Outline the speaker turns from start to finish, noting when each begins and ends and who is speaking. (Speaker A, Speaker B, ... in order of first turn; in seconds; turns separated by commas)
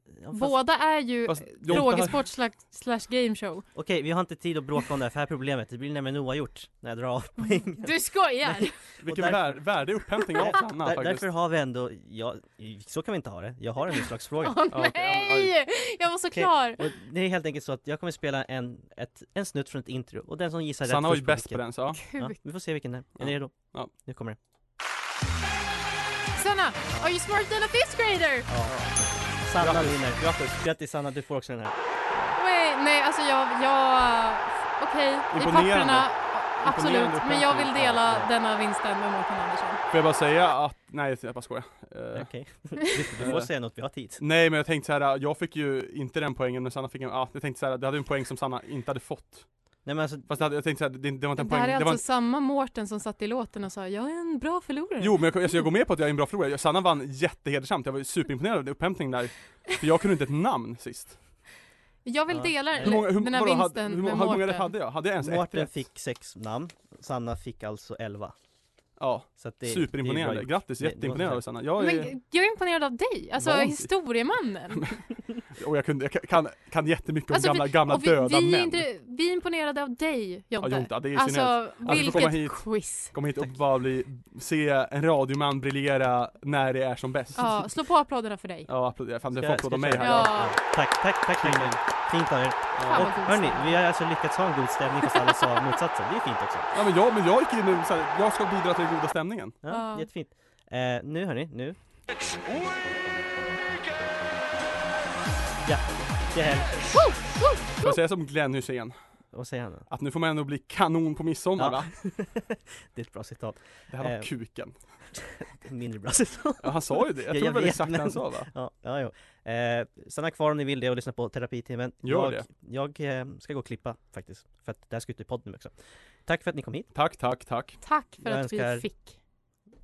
Speaker A: 0.1-0.6, Speaker B: 0.3-3.7, Speaker C: 1.3-2.2, Speaker A: 3.8-14.6, Speaker B: 7.5-8.8, Speaker C: 9.0-11.3, Speaker B: 14.4-16.8, Speaker C: 14.7-15.5, Speaker A: 16.3-24.4, Speaker C: 20.9-22.0, Speaker B: 22.1-22.4, Speaker C: 23.2-23.9, Speaker B: 26.3-28.5, Speaker A: 28.5-31.8, Speaker C: 28.7-28.9, Speaker C: 29.6-30.6, Speaker B: 32.4-39.8, Speaker C: 35.3-37.9, Speaker A: 37.8-38.3, Speaker C: 39.9-42.3, Speaker A: 42.1-44.2, Speaker C: 43.2-49.5, Speaker A: 49.9-50.3, Speaker C: 50.3-52.0, Speaker B: 51.4-55.2, Speaker C: 55.0-61.2, Speaker B: 62.0-64.7, Speaker A: 62.3-63.0, Speaker C: 62.8-65.7, Speaker A: 65.2-68.3, Speaker C: 69.0-72.2, Speaker A: 69.4-71.4, Speaker B: 71.8-74.9, Speaker C: 73.4-73.9, Speaker C: 74.8-78.8, Speaker B: 77.3-83.1, Speaker C: 80.6-87.7, Speaker B: 87.4-88.7, Speaker C: 88.7-90.4, Speaker A: 89.3-96.7, Speaker B: 90.0-90.5, Speaker C: 91.4-91.8, Speaker C: 92.8-93.1, Speaker B: 92.9-93.8, Speaker C: 96.7-99.6, Speaker A: 99.6-101.8, Speaker B: 99.7-100.1, Speaker A: 105.6-106.9, Speaker B: 106.9-107.9, Speaker C: 107.8-109.0, Speaker A: 109.3-109.9, Speaker C: 109.9-111.9, Speaker A: 111.6-114.3, Speaker C: 113.9-115.1, Speaker A: 115.4-126.9, Speaker C: 116.6-118.5, Speaker C: 122.0-122.5, Speaker C: 126.9-127.8, Speaker B: 127.8-129.2, Speaker A: 128.2-128.9